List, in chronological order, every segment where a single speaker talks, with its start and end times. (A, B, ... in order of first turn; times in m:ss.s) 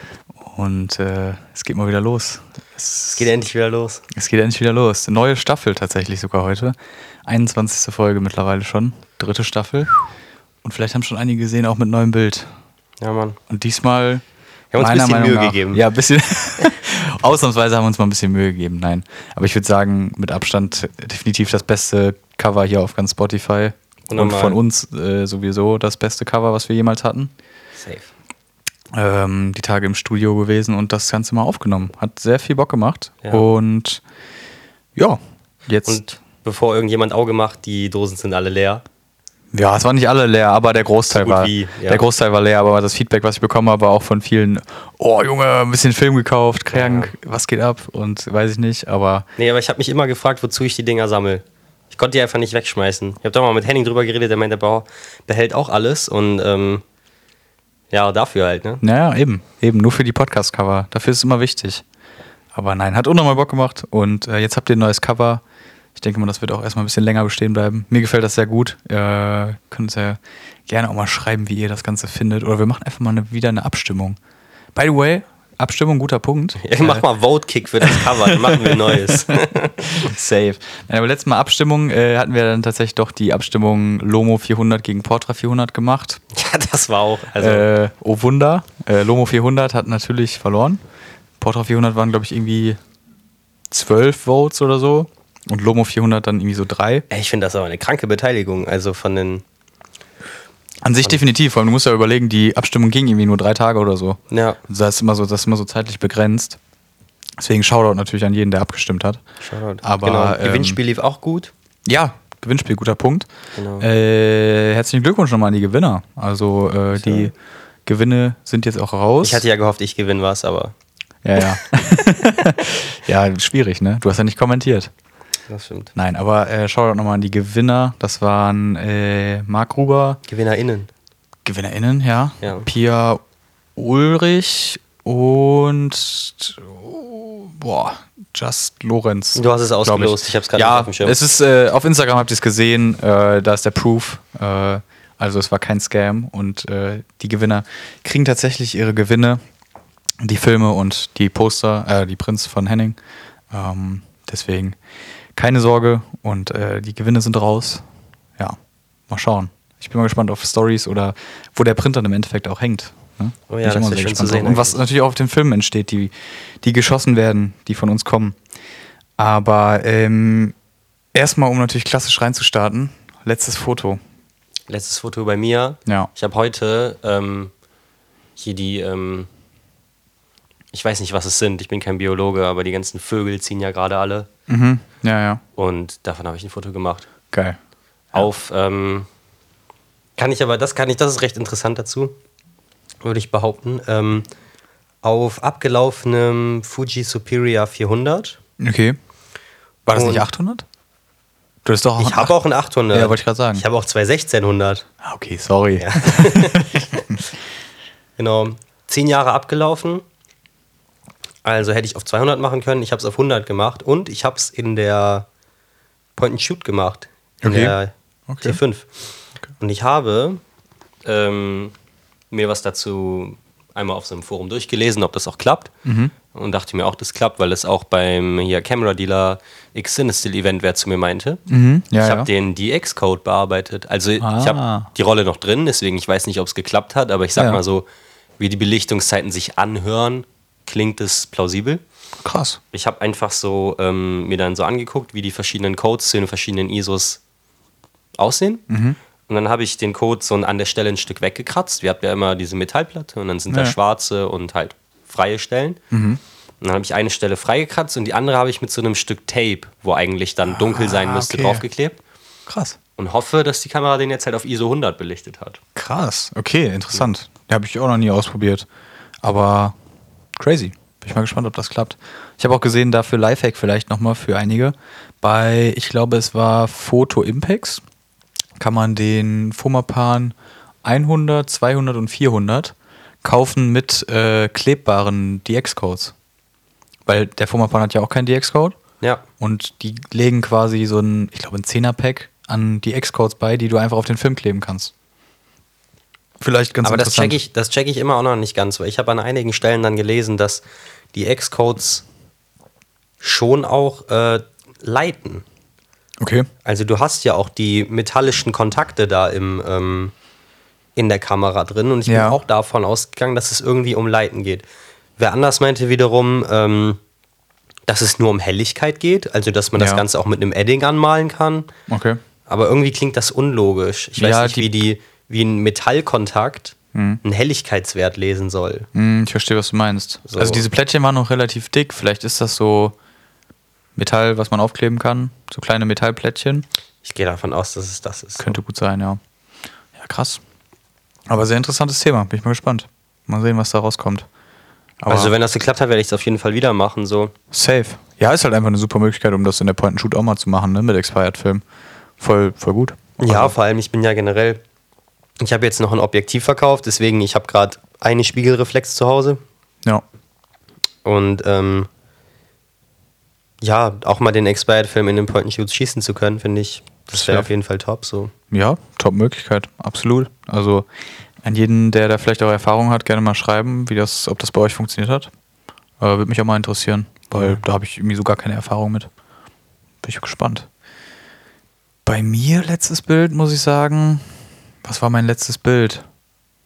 0:00.3-0:03.2 A
0:03.1-0:04.0 B
0:04.1-0:09.9 A
0:10.6-0:12.5 A
0:13.0-0:13.4 B
0:13.5-0:14.2 A
0:14.7-0:15.8 B
0:14.8-0:27.3 A
0:24.1-0:24.6 B
0:27.8-0:28.1 B
0:28.9-0:34.0 A
0:35.0-0:36.0 A
0:35.9-0:38.8 B
0:39.5-0:49.3 A
0:41.1-0:42.0 B
0:46.7-0:47.1 B
0:49.4-0:56.8 B
0:57.9-0:58.8 B
0:58.8-1:01.8 A
1:02.6-1:05.4 A
1:06.0-1:14.2 A
1:14.8-1:17.0 A
1:16.6-1:20.1 B
1:17.8-1:19.4 A
1:19.9-1:26.2 A
1:26.3-1:27.7 B
1:27.4-1:30.8 A
1:31.4-1:32.8 A
1:33.7-1:37.0 A
1:37.1-1:39.4 B
1:40.8-1:46.6 A
1:44.3-1:44.6 B
1:47.4-1:49.2 A
1:49.4-1:51.5 B
1:49.8-1:50.8 A
1:51.9-1:53.3 A
1:53.6-1:53.9 B
1:53.8-1:57.4 A
1:57.0-1:57.3 B
1:57.9-1:59.4 A
1:59.2-2:00.7 B
2:01.2-2:04.9 A
2:05.5-2:05.9 B
2:06.0-2:10.2 A
2:10.3-2:10.9 B
2:11.4-2:13.2 A
2:12.4-2:12.7 B
2:13.8-2:29.4 A
2:19.4-2:21.2 B
2:30.2-2:33.0 A
2:33.5-2:34.8 A
2:35.4-2:37.8 A
2:39.1-2:48.4 A
2:43.5-2:44.8 B
2:49.2-2:50.6 A
2:51.1-2:54.0 A
2:54.7-2:57.5 B
2:58.4-2:59.3 B
3:00.7-3:04.3 B
3:04.5-3:05.4 A
3:05.6-3:07.1 B
3:07.3-3:07.6 A
3:08.1-3:09.1 B
3:10.2-3:12.1 B
3:13.0-3:14.3 B
3:15.0-3:18.4 B
3:18.6-3:19.0 A
3:19.9-3:20.6 A
3:19.9-3:20.3 B
3:21.6-3:22.3 A
3:22.0-3:24.8 B
3:22.9-3:23.6 A
3:25.0-3:27.1 A
3:25.8-3:27.1 B
3:28.2-3:30.0 B
3:31.4-3:35.3 B
3:36.2-3:39.0 B
3:37.4-3:37.8 A
3:38.3-3:38.6 A
3:39.6-3:40.4 B
3:41.0-3:41.7 B
3:42.3-3:45.7 B
3:45.8-3:46.1 A
3:46.3-3:51.4 B
3:51.5-3:52.3 A
3:52.0-3:57.8 B
3:54.2-3:54.9 A
3:58.4-4:01.8 B
4:02.2-4:02.6 A
4:02.7-4:07.2 B
4:08.2-4:08.6 B
4:08.7-4:09.0 A
4:09.3-4:15.8 B
4:13.5-4:13.8 A
4:15.9-4:16.2 A
4:16.6-4:22.0 B
4:20.5-4:21.6 A
4:22.5-4:22.8 A
4:23.0-4:25.6 B
4:25.8-4:28.7 A
4:29.2-4:29.8 A
4:30.4-4:37.8 A
4:38.6-4:46.1 A
4:47.1-4:48.8 A
4:49.4-4:54.9 A
4:56.4-4:57.4 A
4:56.8-5:02.0 B
5:03.2-5:05.4 B
5:06.2-5:06.5 A
5:06.6-5:10.1 B
5:11.0-5:14.6 B
5:12.1-5:12.4 A
5:15.2-5:17.0 B
5:17.9-5:21.7 B
5:19.8-5:20.0 A
5:21.9-5:22.2 A
5:22.5-5:28.9 B
5:24.2-5:24.7 A
5:26.9-5:27.2 A
5:29.0-5:33.0 A
5:30.3-5:30.6 B
5:34.0-5:36.7 A
5:37.0-5:38.6 B
5:38.4-5:39.2 A
5:40.0-5:40.4 A
5:41.3-5:44.3 A
5:45.0-5:45.3 A
5:45.1-5:47.3 B
5:47.5-5:51.6 A
5:52.2-5:53.5 A
5:53.2-5:54.6 B
5:55.4-5:59.4 B
6:01.0-6:01.9 B
6:03.6-6:08.3 B
6:07.1-6:07.5 A
6:08.5-6:10.9 A
6:11.4-6:15.3 A
6:16.0-6:19.1 A
6:17.3-6:17.6 B
6:20.0-6:20.7 A
6:22.0-6:26.1 A